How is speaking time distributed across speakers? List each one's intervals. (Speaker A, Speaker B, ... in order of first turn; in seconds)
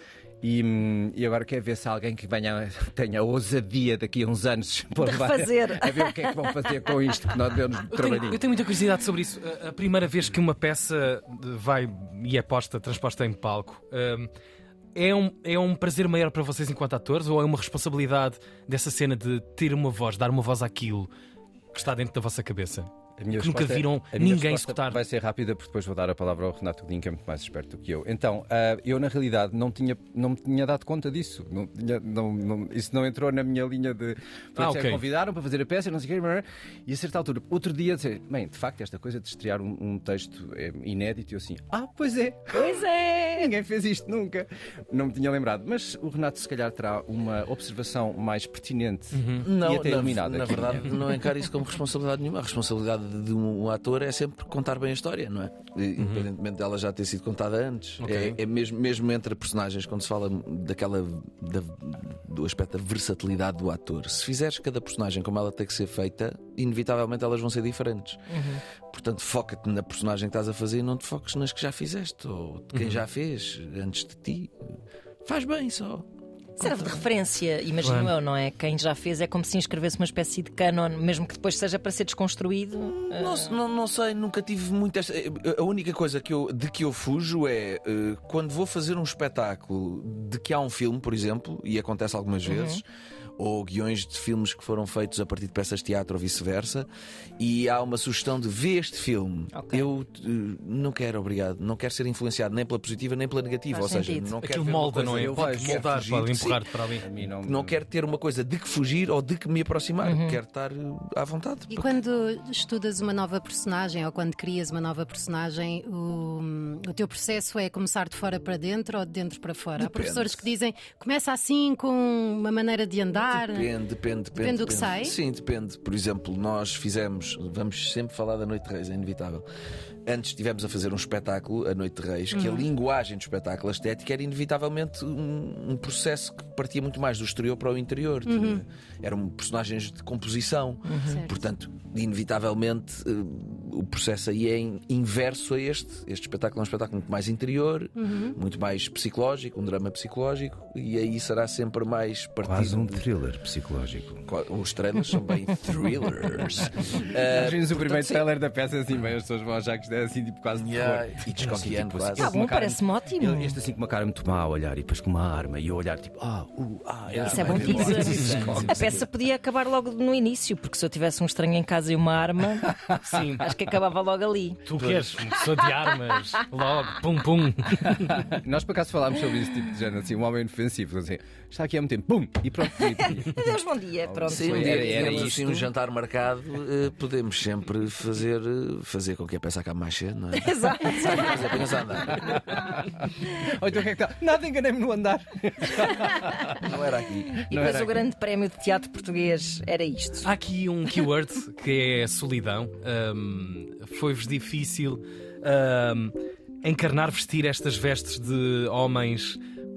Speaker A: 0.4-8.4, 23.2-51.0, 105.2-105.8, 107.0-107.8, 152.4-154.2, 157.2-169.0, 178.2-183.4, 184.1-185.6, 192.1-196.7, 197.5-198.0
Speaker B: 5.0-7.0, 42.5-43.5, 68.3-68.6, 76.6-83.6, 92.5-92.8, 99.5-99.9, 103.7-104.3, 110.0-110.4, 140.8-141.3, 162.2-163.6, 167.3-172.8, 173.4-174.6, 182.7-185.7, 190.3-192.5, 197.5-200.3
Speaker C: 7.9-14.3, 14.9-21.1, 21.7-25.0, 34.6-35.0, 49.1-49.5, 56.0-56.3, 58.0-58.4, 72.7-73.0, 77.8-78.1, 104.4-107.1, 168.1-168.7, 173.0-173.5, 174.7-178.2, 200.2-209.4
Speaker D: 49.4-68.2, 68.9-74.5, 75.2-76.1, 76.6-77.0, 82.8-92.8, 93.4-106.7, 107.5-111.9, 119.8-120.5, 123.3-129.5, 130.1-153.1, 154.3-158.3, 160.5-162.4, 167.1-169.1, 174.8-175.2, 184.3-192.2, 196.6-197.4
Speaker E: 111.7-123.6, 124.4-125.1, 138.3-138.6, 148.0-148.3